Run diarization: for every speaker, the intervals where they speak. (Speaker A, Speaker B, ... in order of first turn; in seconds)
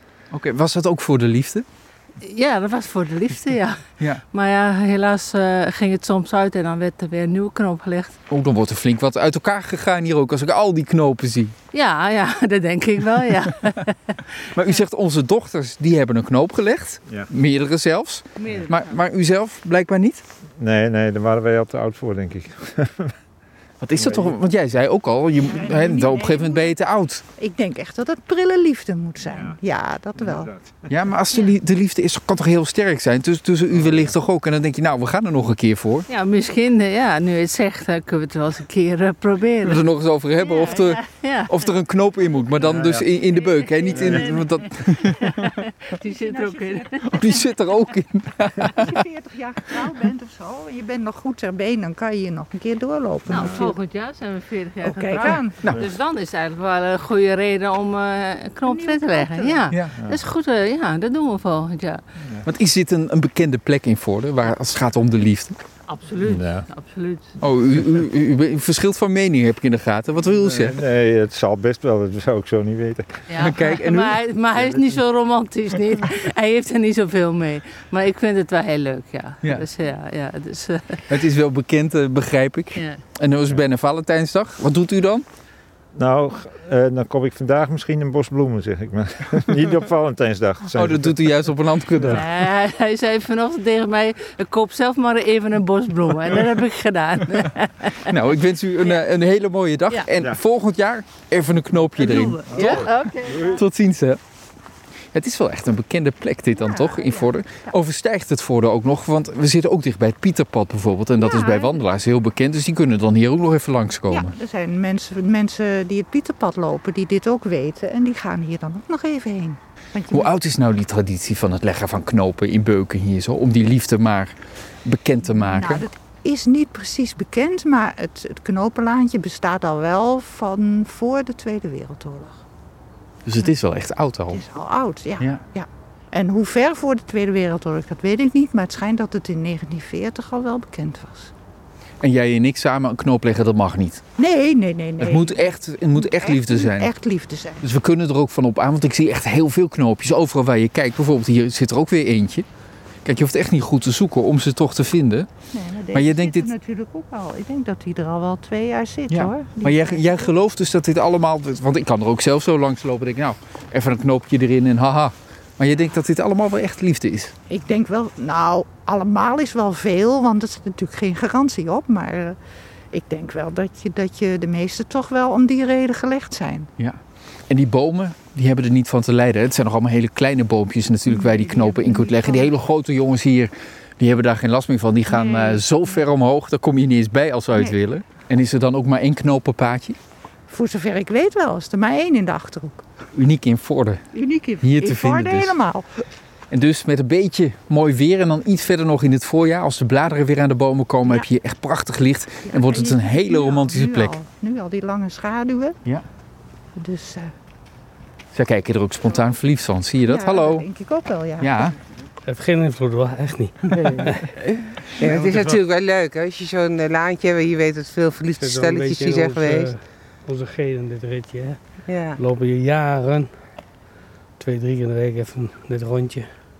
Speaker A: 0.3-1.6, 8.3-11.5, 14.5-20.2, 23.8-27.2, 30.9-36.1, 39.6-45.2, 47.1-49.0, 59.7-60.0, 62.4-65.6, 67.4-70.8, 73.4-74.2, 81.1-85.2, 90.7-92.2, 98.0-102.9, 103.5-104.2, 105.1-114.3, 120.1-125.8, 133.2-134.4, 142.0-144.0, 145.0-146.9, 147.6-152.4, 153.0-155.3, 155.9-156.5, 159.1-167.3, 177.5-190.0, 193.1-194.0, 194.6-195.5, 196.5-204.2, 208.3-210.7, 211.4-211.8
Speaker B: 2.2-8.1, 11.7-14.2, 18.4-18.9, 36.1-39.8, 40.4-41.5, 42.9-47.4, 53.3-62.0, 65.9-67.3, 73.3-81.0, 82.7-83.0, 92.0-98.1, 102.0-103.6
Speaker C: 20.6-23.1, 23.9-24.4, 30.2-30.9, 33.7-34.1, 42.6-43.1, 43.9-44.3, 53.3-53.6, 66.2-66.7, 70.4-73.2, 85.9-91.3, 102.5-103.6
Speaker D: 25.5-26.6, 27.4-30.5, 46.0-47.4, 48.6-53.8, 54.8-55.6, 58.6-59.7, 106.5-107.7, 111.2-111.8, 114.1-120.3, 125.3-132.4, 134.3-141.3, 144.2-147.6, 155.5-160.3, 167.5-172.4, 172.9-176.7, 181.1-182.5, 185.1-185.7, 190.5-192.8, 194.1-196.0, 202.5-205.8, 206.8-207.3, 210.1-211.7
Speaker E: 212.2-214.3, 215.0-215.5, 218.4-221.6, 222.2-223.3, 224.4-226.3
Speaker F: 213.7-219.8, 221.9-222.2